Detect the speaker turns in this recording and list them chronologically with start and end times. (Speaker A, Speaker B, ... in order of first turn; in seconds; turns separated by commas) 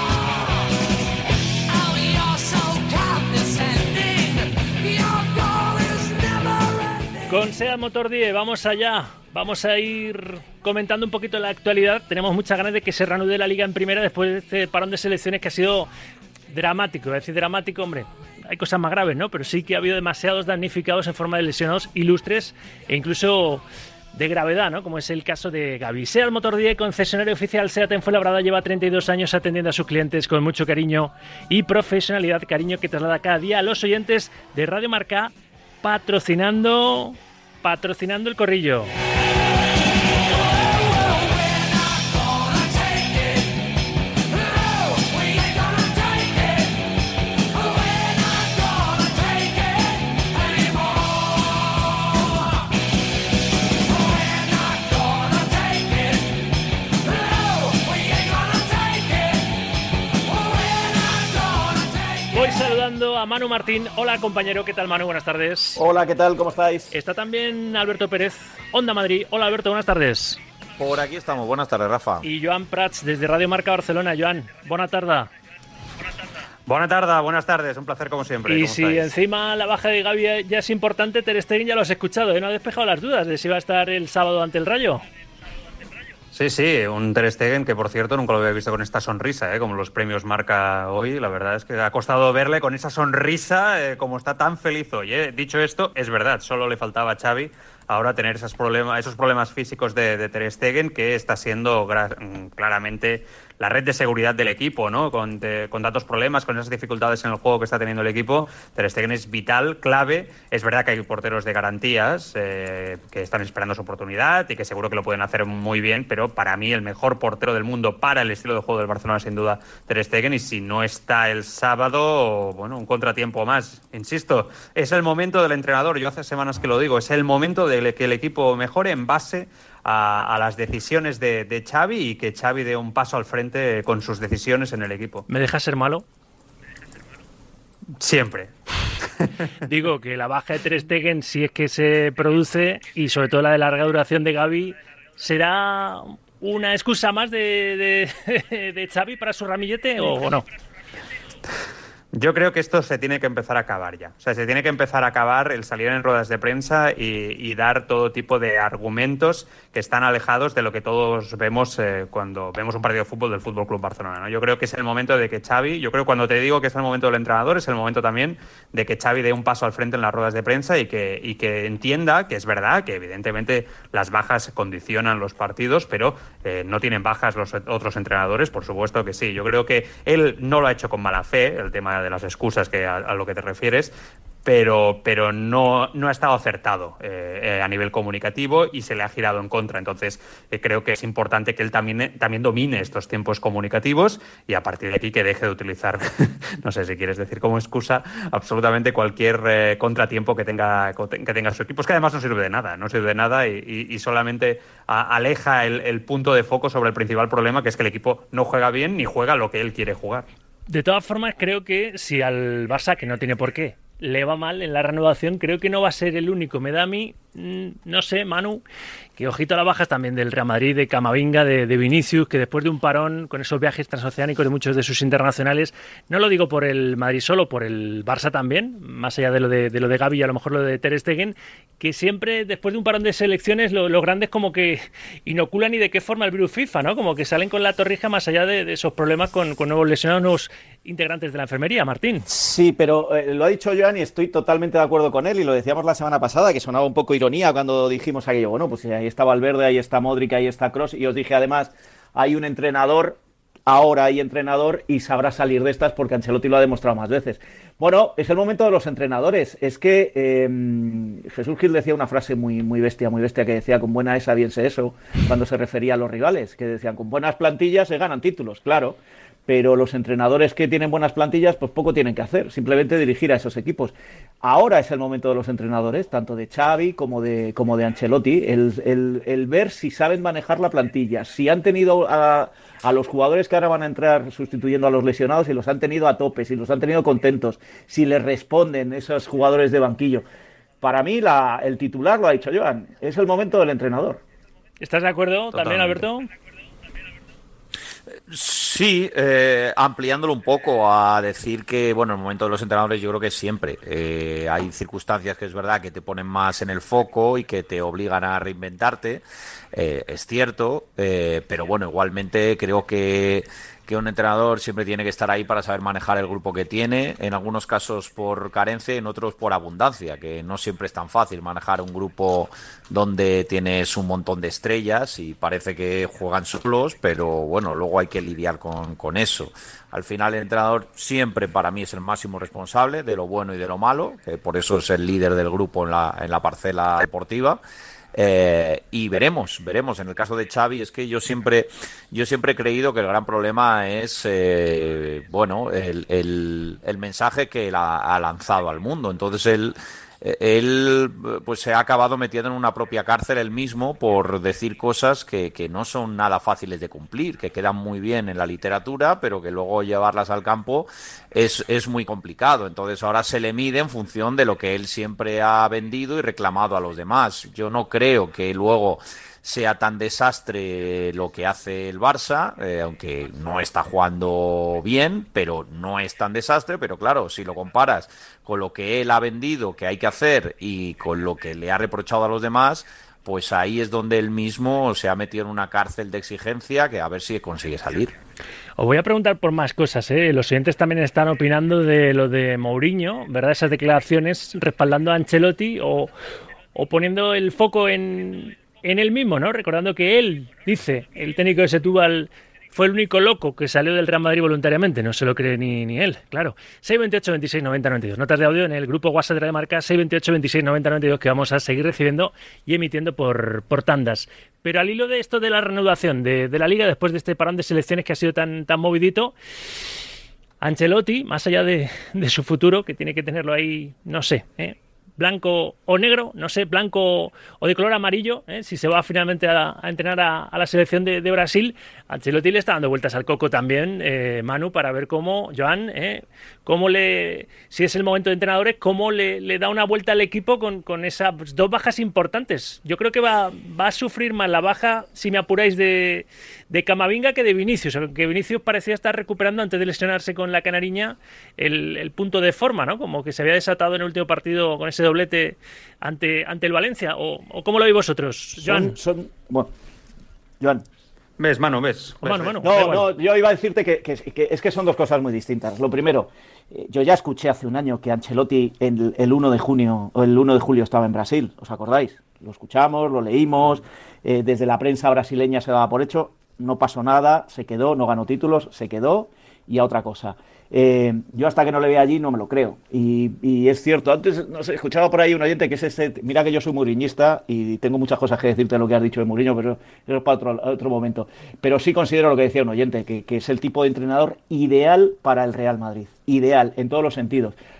Speaker A: 7.3-15.9, Speaker A: 16.5-35.3, Speaker A: 35.8-38.9, Speaker A: 62.3-65.8, Speaker B: 65.8-66.9, Speaker A: 66.9-70.4, Speaker C: 70.8-72.2, Speaker A: 72.2-75.3, Speaker D: 76.7-79.1, Speaker A: 78.5-85.0, Speaker D: 86.3-135.2, Speaker A: 135.3-136.0, Speaker D: 138.0-138.5, Speaker D: 139.2-139.5, Speaker A: 139.6-150.4, Speaker D: 152.1-183.9, Speaker D: 184.4-210.3, Speaker A: 210.7-218.6, Speaker A: 219.2-242.3, Speaker B: 242.3-290.2, Speaker B: 290.8-294.2, Speaker A: 294.8-296.3, Speaker D: 295.5-296.0, Speaker C: 298.1-337.6, Speaker C: 338.1-388.1, Speaker A: 388.8-396.1, Speaker A: 396.7-419.3, Speaker A: 420.6-458.9, Speaker B: 458.6-459.7, Speaker D: 461.4-462.7, Speaker A: 462.2-463.1, Speaker B: 462.6-497.6